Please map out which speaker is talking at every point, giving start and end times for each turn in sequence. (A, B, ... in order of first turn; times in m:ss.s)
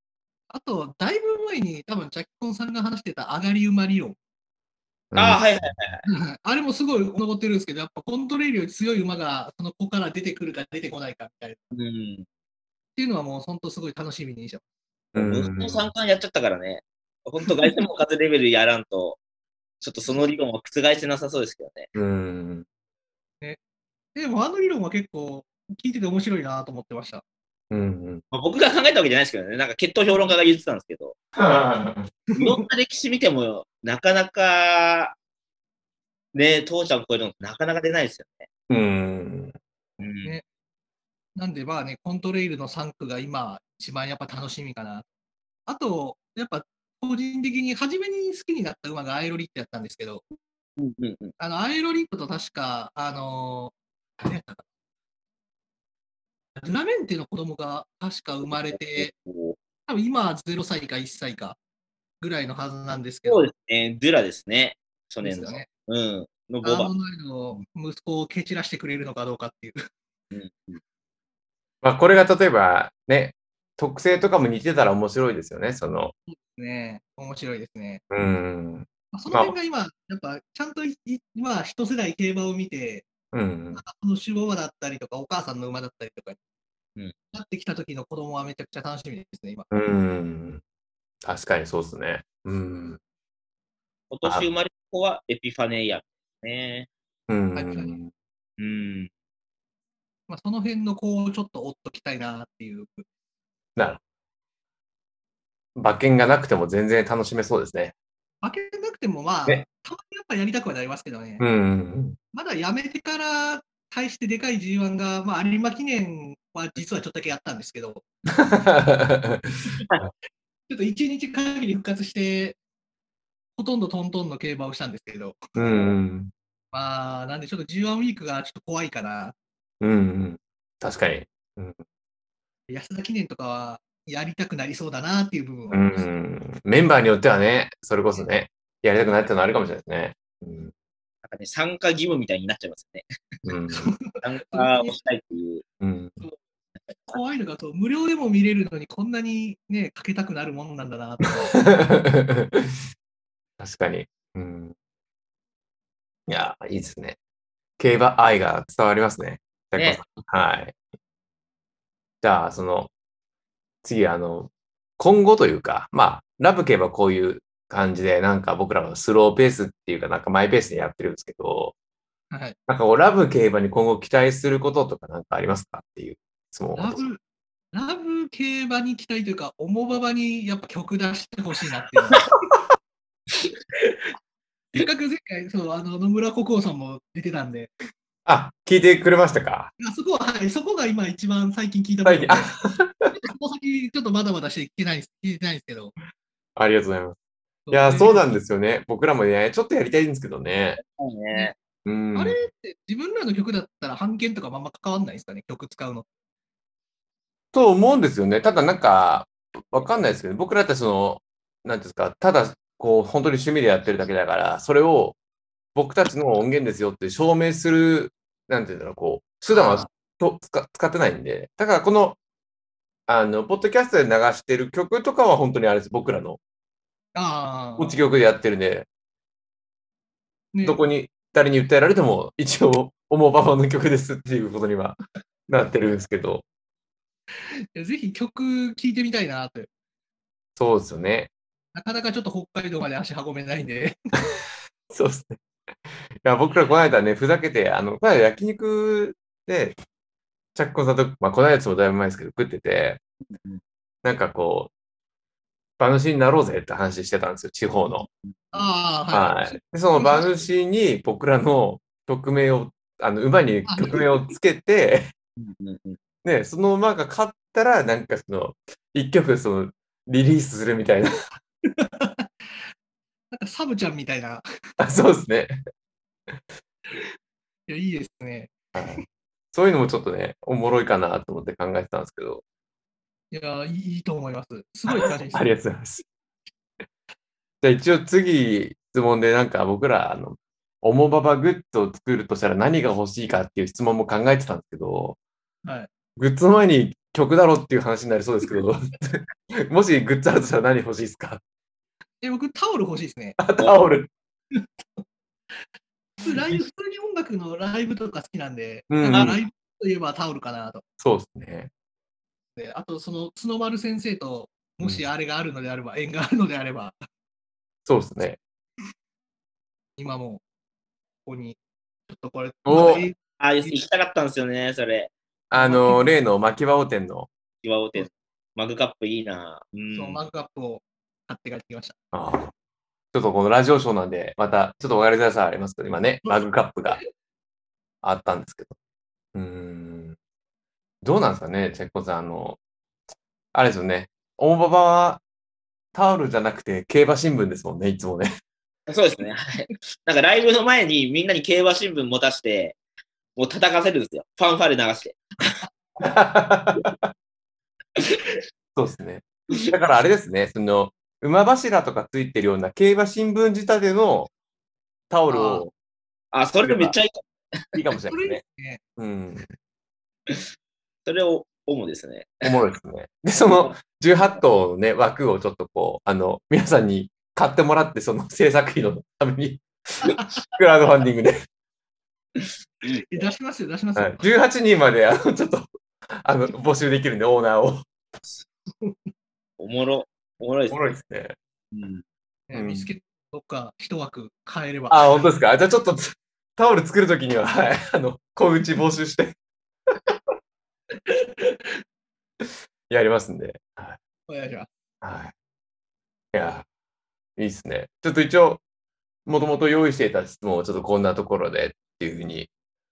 0:00.5-0:04.2 A
0:05.1-0:05.7 B
0:05.2-0:06.1 C
0:06.1-0:11.6 A
0:11.7-0:12.3 C
0:13.0-0:14.6 A
0:15.1-0:15.9 B
0:15.2-0:19.2 C
0:19.8-0:21.9 C
0:22.0-0:22.7 B
0:24.2-0:27.2 A
0:27.7-0:28.2 B
0:28.3-0:31.2 C
0:31.4-0:32.1 B
0:32.4-0:32.6 A
0:32.4-0:35.2 C
0:36.3-0:38.5 C
0:38.7-0:39.6 B
0:40.0-0:40.4 C
0:41.4-0:45.0 A
0:45.7-0:50.2 A
0:50.8-0:51.4 C
0:51.4-0:54.6 A
0:56.6-0:59.1 A
0:58.5-0:59.6 C
0:59.9-1:01.6 A
1:02.2-1:03.5 A
1:03.3-1:06.9 C
1:05.2-1:05.7 A
1:06.6-1:09.8 A
1:10.3-1:10.8 C
1:11.8-1:16.1 B
1:16.3-1:18.0 A
1:18.1-1:19.6 B
1:19.1-1:23.1 A
1:23.3-1:23.8 B
1:23.7-1:26.4 A
1:27.3-1:29.7 A
1:29.7-1:30.6 B
1:31.2-1:33.0 B
1:34.1-1:36.9 C
1:37.3-1:38.1 B
1:37.5-1:38.0 A
1:38.6-1:39.1 C
1:40.3-1:43.0 A
1:45.8-1:47.9 B
1:48.4-1:51.5 A
1:51.4-1:52.2 B
1:52.3-1:58.0 A
1:58.4-2:00.1 B
2:00.7-2:02.6 A
2:03.6-2:05.5 A
2:05.6-2:06.3 B
2:06.7-2:09.4 A
2:09.8-2:11.8 B
2:12.7-2:16.1 A
2:15.7-2:20.7 B
2:21.2-2:23.0 C
2:23.5-2:23.9 B
2:23.7-2:25.0 A
2:24.2-2:25.6 C
2:25.8-2:26.2 B
2:27.1-2:31.6 A
2:31.5-2:32.8 B
2:33.6-2:34.7 B
2:36.3-2:37.2 B
2:37.8-2:40.8 B
2:42.2-2:42.9 B
2:43.8-2:51.7 B
2:52.3-2:52.6 A
2:52.7-2:57.0 B
2:56.8-2:57.2 A
2:57.7-3:02.3 A
3:04.7-3:07.7 A
3:08.3-3:09.7 B
3:09.8-3:12.5 A
3:12.0-3:13.1 B
3:13.2-3:15.9 A
3:16.6-3:17.2 B
3:17.7-3:18.4 A
3:17.7-3:20.8 B
3:20.8-3:21.6 C
3:21.8-3:22.4 B
3:22.2-3:26.1 A
3:27.5-3:35.2 B
3:35.8-3:42.2 B
3:39.5-3:39.9 A
3:43.1-3:46.4 B
3:47.2-3:47.9 A
3:47.8-3:48.9 B
3:50.5-3:50.8 A
3:50.6-3:55.0 B
3:55.5-3:56.4 B
3:57.8-3:59.7 A
4:00.6-4:01.3 B
4:01.8-4:04.0 A
4:04.9-4:05.4 B
4:06.2-4:09.8 B
4:10.6-4:13.0 B
4:13.3-4:13.6 C
4:14.0-4:14.7 B
4:15.8-4:18.1 B
4:18.1-4:18.7 C
4:18.5-4:20.3 A
4:19.1-4:25.1 B
4:23.7-4:24.1 A
4:25.4-4:26.0 C
4:26.2-4:31.1 B
4:31.7-4:32.7 A
4:33.3-4:34.4 A
4:34.8-4:35.6 B
4:37.7-4:39.0 A
4:38.8-4:39.0 B
4:39.5-4:42.4 B
4:43.3-4:45.4 A
4:44.9-4:46.1 B
4:47.6-4:55.2 B
4:56.2-5:01.4 B
5:02.2-5:03.4 A
5:03.4-5:04.1 B
5:04.6-5:05.0 A
5:06.2-5:10.8 A
5:08.9-5:09.4 B
5:09.1-5:09.4 C
5:11.0-5:11.7 B
5:12.6-5:17.0 A
5:17.9-5:18.4 B
5:20.0-5:20.4 A
5:21.3-5:23.8 A
5:22.7-5:23.0 B
5:23.4-5:25.1 C
5:25.5-5:27.3 B
5:25.5-5:26.1 A
5:27.6-5:30.2 C
5:29.9-5:32.0 A
5:32.1-5:32.5 B
5:33.1-5:37.0 B
5:38.0-5:38.8 B
5:39.4-5:40.2 B
5:41.0-5:42.6 B
5:43.5-5:45.2 B
5:45.9-5:48.3 B
5:48.9-5:52.8 C
5:53.4-5:55.6 C
5:56.0-5:57.1 B
5:58.8-6:04.3 B
6:05.1-6:05.7 B
6:05.3-6:05.6 A
6:06.3-6:07.7 C
6:06.6-6:07.0 B
6:07.7-6:08.4 B
6:08.1-6:08.8 A
6:09.0-6:09.5 B
6:11.1-6:12.6 C
6:12.4-6:19.7 B
6:13.5-6:13.8 C
6:20.0-6:20.4 A
6:20.5-6:21.4 B
6:22.4-6:23.2 C
6:22.9-6:24.2 A
6:24.0-6:25.7 B
6:26.2-6:27.9 B
6:28.8-6:29.1 A
6:29.6-6:30.9 C
6:30.7-6:31.4 B
6:31.7-6:32.0 C
6:32.5-6:35.1 A
6:32.5-6:32.9 B
6:34.9-6:39.4 B
6:41.1-6:41.8 A
6:42.9-6:44.0 B
6:44.3-6:44.7 A
6:45.0-6:45.3 B
6:46.3-6:46.7 B
6:47.4-6:48.6 B
6:49.3-6:52.5 B